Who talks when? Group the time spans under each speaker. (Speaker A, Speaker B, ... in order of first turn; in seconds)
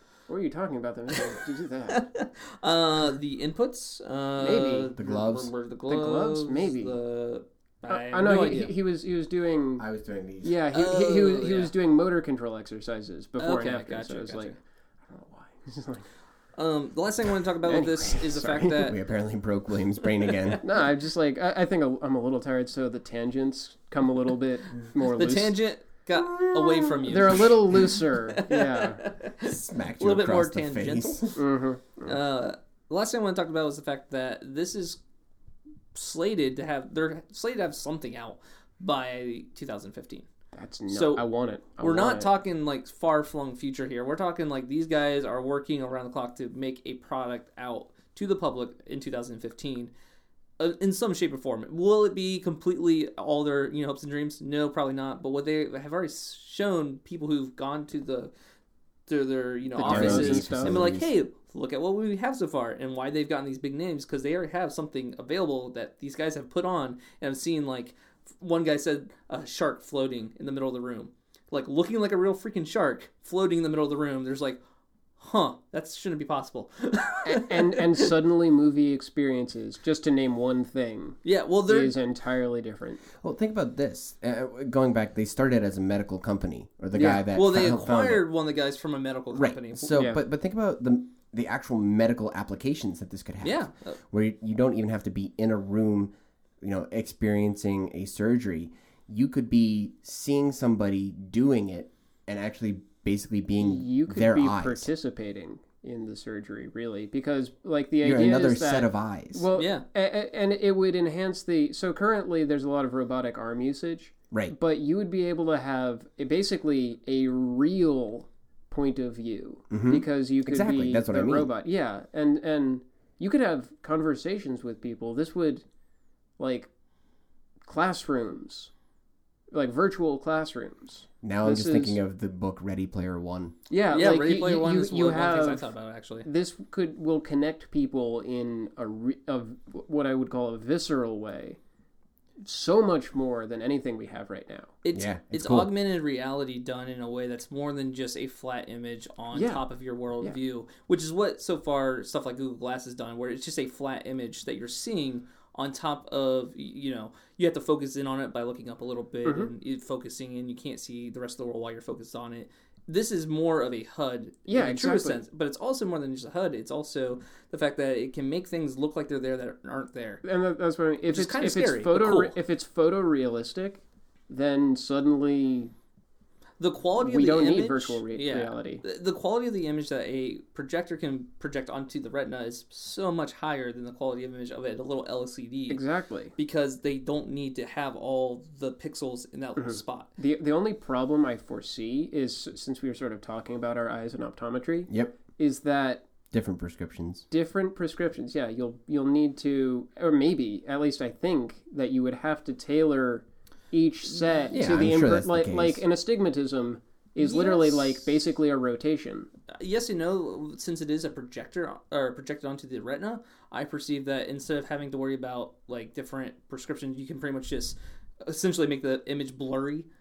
Speaker A: 0.3-2.1, 4.4-5.1, 5.9-7.0, 7.9-9.9, 10.4-14.6, 15.1-16.1, 17.6-18.9, 20.6-25.6, 27.0-29.0, 31.4-32.2, 40.5-42.3, 59.8-60.9, 77.2-83.0, 87.0-87.3, 89.9-90.2, 103.6-125.7, 126.4-126.7, 127.7-128.7, 129.5-132.0, 133.7-135.7, 136.2-141.6, 142.4-144.8, 149.3-149.6, 159.2-159.5, 164.5-165.2, 170.2-175.7, 177.0-178.8, 185.7-186.3, 189.6-196.1, 197.3-209.3
Speaker B: 1.9-8.7, 10.7-11.7, 13.4-14.6, 16.6-19.0, 20.3-20.6, 25.1-31.4, 32.0-35.0, 36.0-40.3, 40.9-41.2, 41.8-49.9, 50.6-58.3, 59.1-74.6, 75.2-78.1, 81.2-82.0, 87.3-90.0, 93.4-94.0, 109.6-109.8, 133.9-136.3, 144.8-170.2, 171.1-172.4, 176.6-185.8, 186.4-190.1, 204.4-204.8, 207.2-208.1, 209.6-219.9
Speaker C: 5.0-5.5, 9.8-10.6, 18.8-20.6, 26.4-26.9, 29.4-31.4, 59.8-61.1, 83.2-88.2, 89.3-104.9, 108.0-109.5, 119.7-121.5, 131.2-133.6, 144.9-145.7, 194.9-195.2, 196.3-197.3, 204.5-205.8